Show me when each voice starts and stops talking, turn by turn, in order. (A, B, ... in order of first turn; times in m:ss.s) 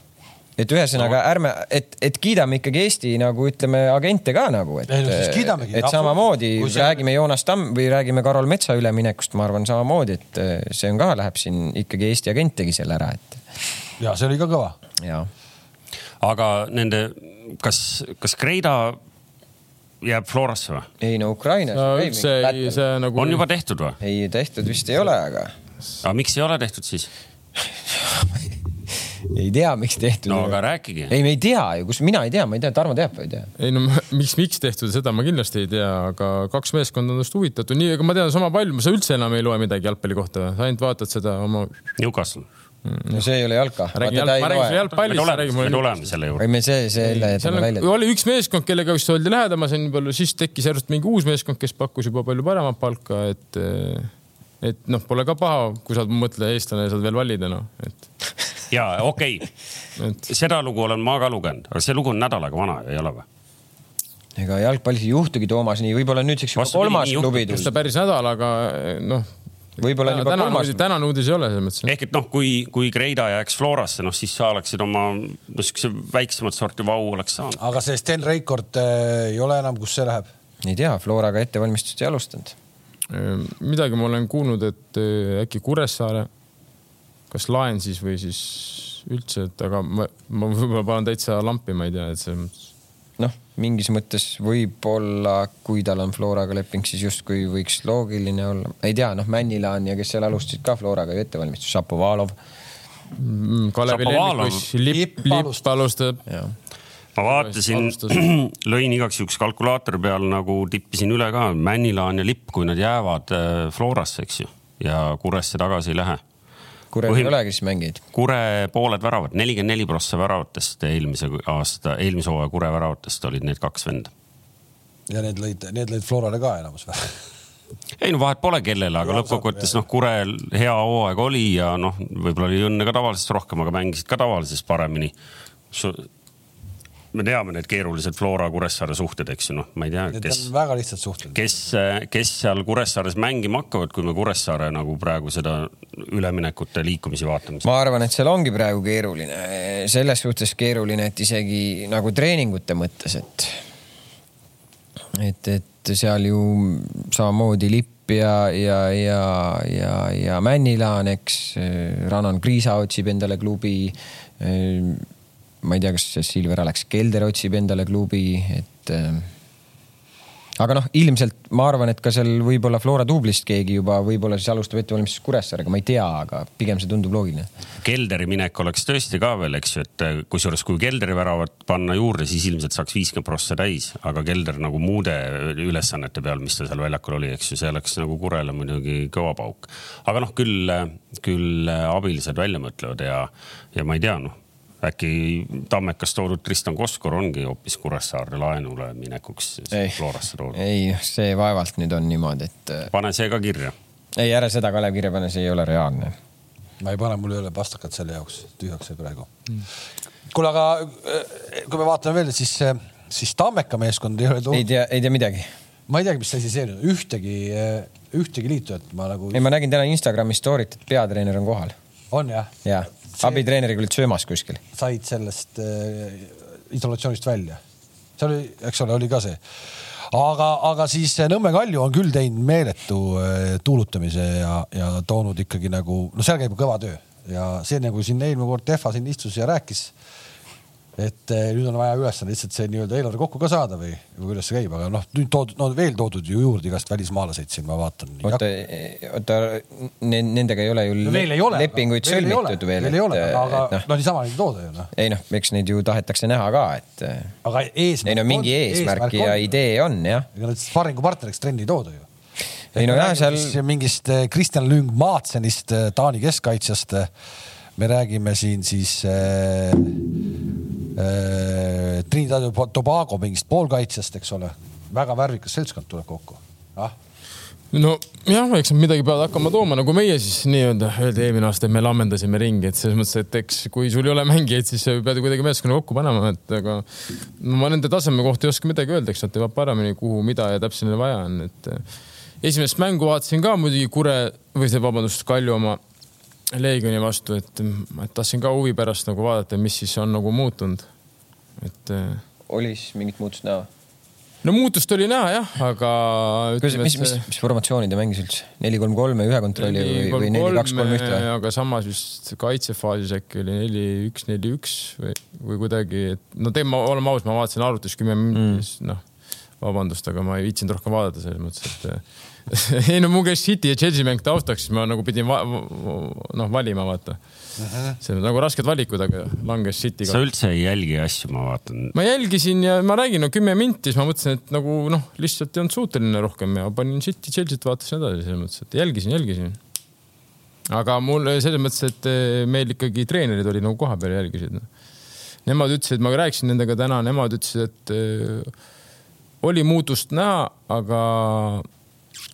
0:00.6-0:13.4 A
0:04.9-0:07.0 B
0:14.0-0:14.8 B
0:15.0-0:15.3 A
0:16.2-0:19.0 C
0:20.0-0:20.9 C
0:21.0-0:22.8 A
0:21.7-0:23.4 D
0:23.2-0:24.0 C
0:24.0-0:25.5 A
0:26.0-0:27.1 C
0:27.6-0:28.6 A
0:29.3-0:30.6 A
0:30.3-0:31.1 C
0:31.1-0:33.5 A
0:33.6-0:41.8 D
0:42.0-0:42.5 C
0:42.8-0:43.3 D
0:43.1-0:44.8 A
0:44.0-0:45.9 D
0:45.0-0:46.4 C
0:46.4-0:47.9 A
0:47.0-0:54.1 D
0:54.6-0:58.0 D
0:58.7-0:59.5 C
1:00.0-1:00.2 D
1:00.3-1:03.2 C
1:04.4-1:07.7 A
1:06.6-1:07.7 C
1:07.5-1:09.3 D
1:09.8-1:10.8 A
1:10.0-1:11.9 D
1:11.9-1:17.6 C
1:17.6-1:20.3 B
1:20.6-1:22.6 A
1:23.1-1:26.3 D
1:27.3-1:32.6 D
1:33.2-1:42.4 A
1:43.2-1:46.2 D
1:43.9-1:44.7 C
1:44.9-1:45.7 B
1:47.2-1:56.2 C
1:47.2-1:48.3 D
1:56.9-1:58.0 A
1:57.1-1:57.3 C
1:58.1-2:04.1 C
2:05.1-2:07.2 B
2:08.0-2:15.1 C
2:09.0-2:09.8 B
2:15.7-2:16.1 C
2:17.1-2:20.5 C
2:20.1-2:21.6 B
2:21.4-2:27.7 C
2:27.6-2:33.6 A
2:35.1-2:45.1 A
2:45.6-2:49.3 A
2:50.6-2:57.5 A
2:57.8-3:20.6 C
3:19.7-3:20.0 A
3:20.5-3:22.9 A
3:22.9-3:23.7 C
3:24.2-3:26.2 A
3:26.8-3:29.3 B
3:30.3-3:34.7 B
3:34.5-3:35.5 A
3:35.9-3:39.5 B
3:39.3-3:41.8 A
3:42.1-3:42.5 B
3:42.6-3:44.6 A
3:43.1-3:43.4 B
3:44.7-3:47.6 B
3:48.2-3:49.4 B
3:50.1-3:59.9 B
4:01.0-4:08.4 B
4:08.2-4:13.8 A
4:11.0-4:14.9 B
4:14.9-4:17.3 A
4:17.4-4:19.5 B
4:18.0-4:20.3 A
4:20.3-4:22.1 B
4:22.7-4:23.6 A
4:22.7-4:27.1 B
4:27.8-4:30.1 B
4:31.0-4:36.9 B
4:37.7-4:51.8 D
4:52.4-4:55.8 D
4:56.5-5:00.9 D
5:01.6-5:02.2 D
5:02.5-5:03.7 A
5:04.4-5:07.2 D
5:06.6-5:11.3 A
5:09.6-5:19.0 D
5:18.3-5:18.6 A
5:19.6-5:27.2 D
5:27.6-5:28.0 B
5:28.0-5:30.2 D
5:30.1-5:31.9 C
5:31.9-5:39.6 D
5:40.7-5:44.7 D
5:45.4-5:48.5 D
5:49.4-5:51.7 D